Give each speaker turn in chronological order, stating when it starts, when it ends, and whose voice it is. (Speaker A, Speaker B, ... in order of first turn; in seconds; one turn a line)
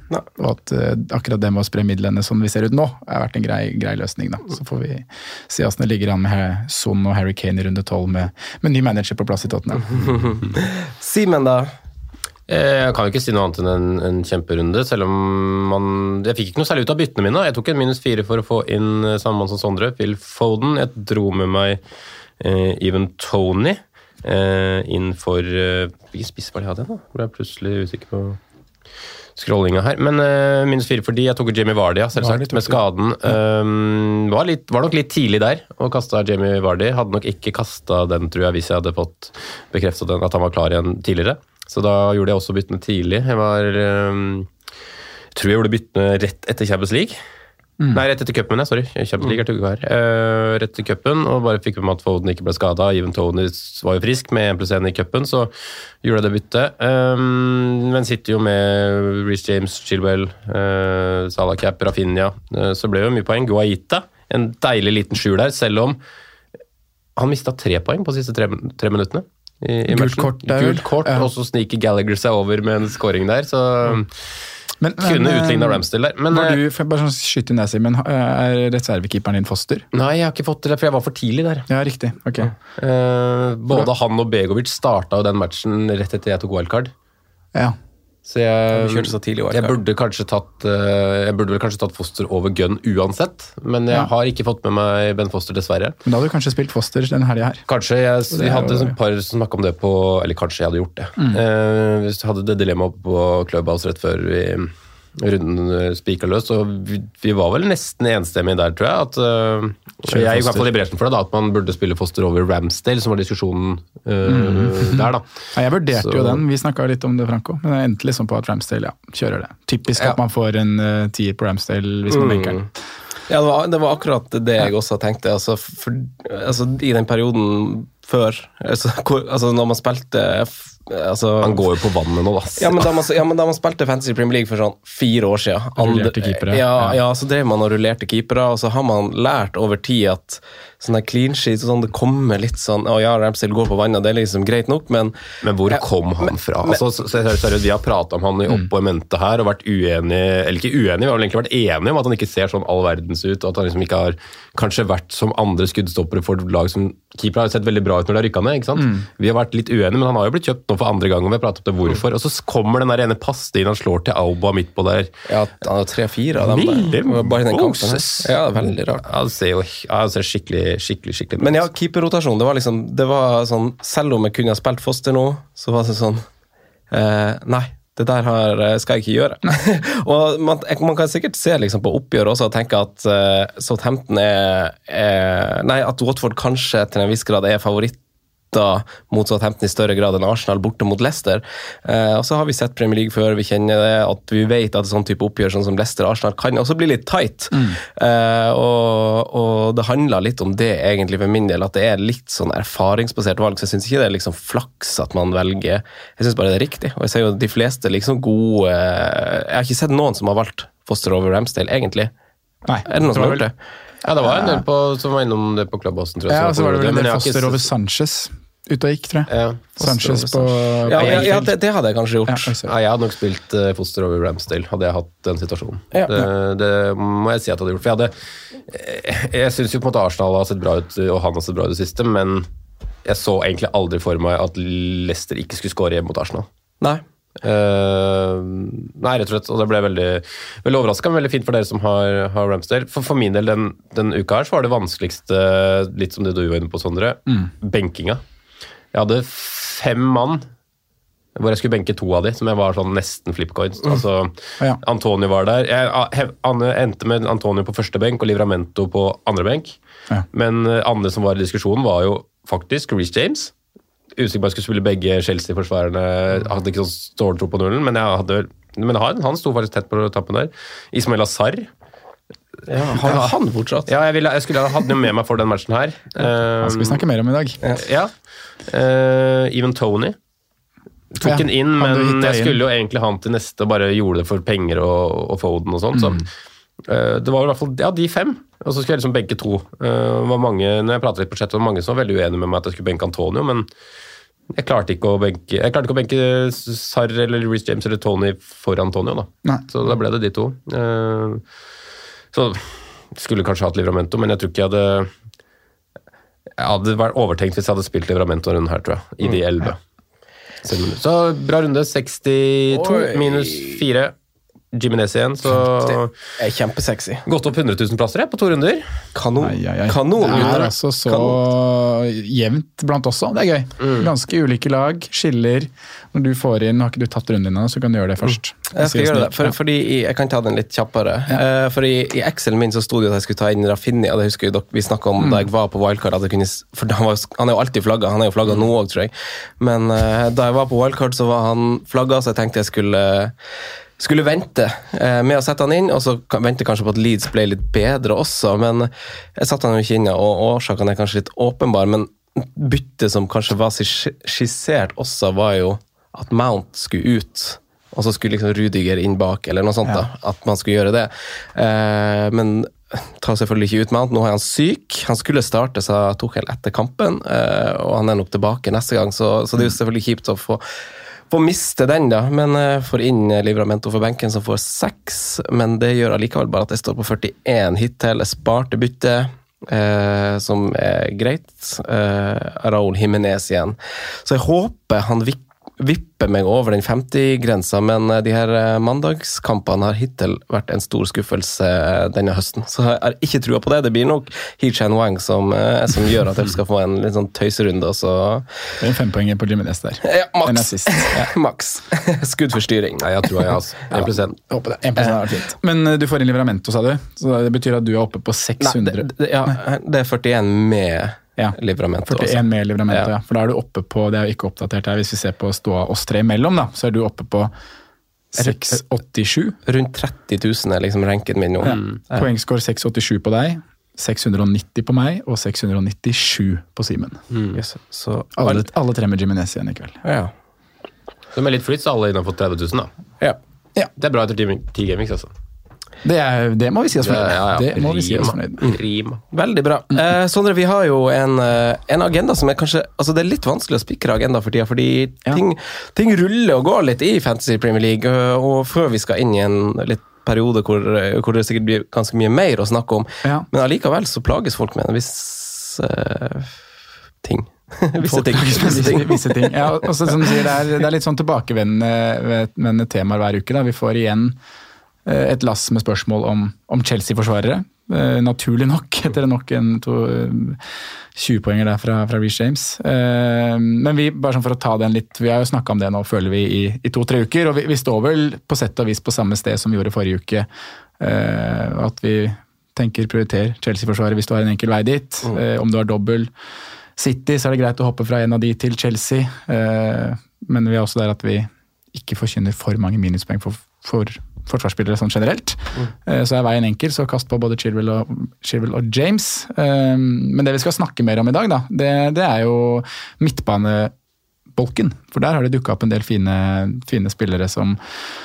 Speaker A: 0.3-10.1
Speaker B: 9.9-11.7
Speaker C: 12.5-21.8
Speaker C: 22.4-28.4
Speaker C: 29.4-44.5
Speaker A: 32.2-33.3
Speaker C: 45.3-47.2
Speaker C: 47.9-66.0
Speaker C: 67.2-74.2
Speaker A: 69.9-71.3
Speaker A: 74.8-79.8
Speaker C: 75.0-76.6
Speaker C: 79.9-81.7
Speaker A: 81.7-82.5
Speaker C: 82.8-86.9
Speaker C: 88.2-96.0
Speaker B: 88.7-89.8
Speaker A: 96.0-97.7
Speaker C: 97.7-115.2
Speaker A: 98.3-98.9
Speaker A: 110.1-110.7
Speaker A: 114.2-122.6
Speaker C: 115.9-116.4
Speaker B: 122.1-122.7
Speaker B: 123.3-131.7
Speaker C: 131.4-132.9
Speaker B: 132.6-145.2
Speaker A: 135.8-137.0
Speaker C: 145.4-165.1
Speaker B: 145.7-146.8
Speaker A: 158.8-159.1
Speaker B: 165.3-169.0
Speaker C: 166.4-171.7
Speaker B: 171.4-176.2
Speaker B: 176.9-188.0
Speaker B: 188.5-212.1
Speaker A: 197.5-197.8
Speaker A: 212.7-213.4
Speaker B: 212.8-213.5
Speaker C: 214.0-217.7
Speaker A: 214.2-214.6
Speaker A: 216.3-221.5
Speaker C: 219.3-219.6
Speaker B: 219.8-222.5
Speaker C: 220.9-221.4
Speaker A: 222.3-222.7
Speaker C: 222.7-228.1
Speaker C: 228.7-232.5
Speaker C: 233.1-236.5
Speaker C: 237.4-248.2
Speaker C: 248.9-250.4
Speaker C: 251.3-259.8
Speaker C: 260.3-263.5
Speaker C: 264.2-271.7
Speaker B: 272.7-273.9
Speaker C: 273.0-273.3
Speaker C: 273.9-277.0
Speaker A: 276.6-277.6
Speaker C: 277.8-278.1
Speaker C: 278.6-280.2
Speaker C: 281.1-286.3
Speaker A: 281.2-282.6
Speaker A: 285.9-286.2
Speaker C: 286.9-293.7
Speaker C: 294.5-301.4
Speaker C: 302.3-305.1
Speaker C: 306.6-309.8
Speaker C: 310.6-314.1
Speaker B: 312.7-313.8
Speaker C: 314.7-316.1
Speaker B: 316.4-317.2
Speaker C: 317.2-318.9
Speaker B: 319.1-321.4
Speaker A: 319.4-329.6
Speaker C: 320.2-320.7
Speaker C: 323.8-324.1
Speaker B: 328.7-343.3
Speaker A: 335.2-335.4
Speaker B: 344.0-370.6
Speaker B: 371.3-398.4
Speaker A: 398.8-401.3
Speaker B: 400.0-403.1
Speaker C: 403.0-404.3
Speaker A: 403.9-409.5
Speaker B: 408.6-413.1
Speaker A: 412.1-417.5
Speaker A: 418.3-419.6
Speaker B: 418.4-418.8
Speaker B: 419.6-422.2
Speaker A: 421.6-427.2
Speaker C: 421.7-422.0
Speaker C: 427.3-427.6
Speaker B: 427.5-428.7
Speaker A: 428.4-430.0
Speaker B: 430.0-430.3
Speaker C: 431.3-432.9
Speaker C: 434.0-435.3
Speaker A: 436.0-438.7
Speaker C: 437.0-439.2
Speaker B: 439.3-456.6
Speaker B: 457.2-460.2
Speaker A: 458.0-464.4
Speaker A: 465.1-470.6
Speaker A: 471.1-480.5
Speaker A: 481.0-486.3
Speaker A: 487.0-503.9
Speaker A: 504.5-507.8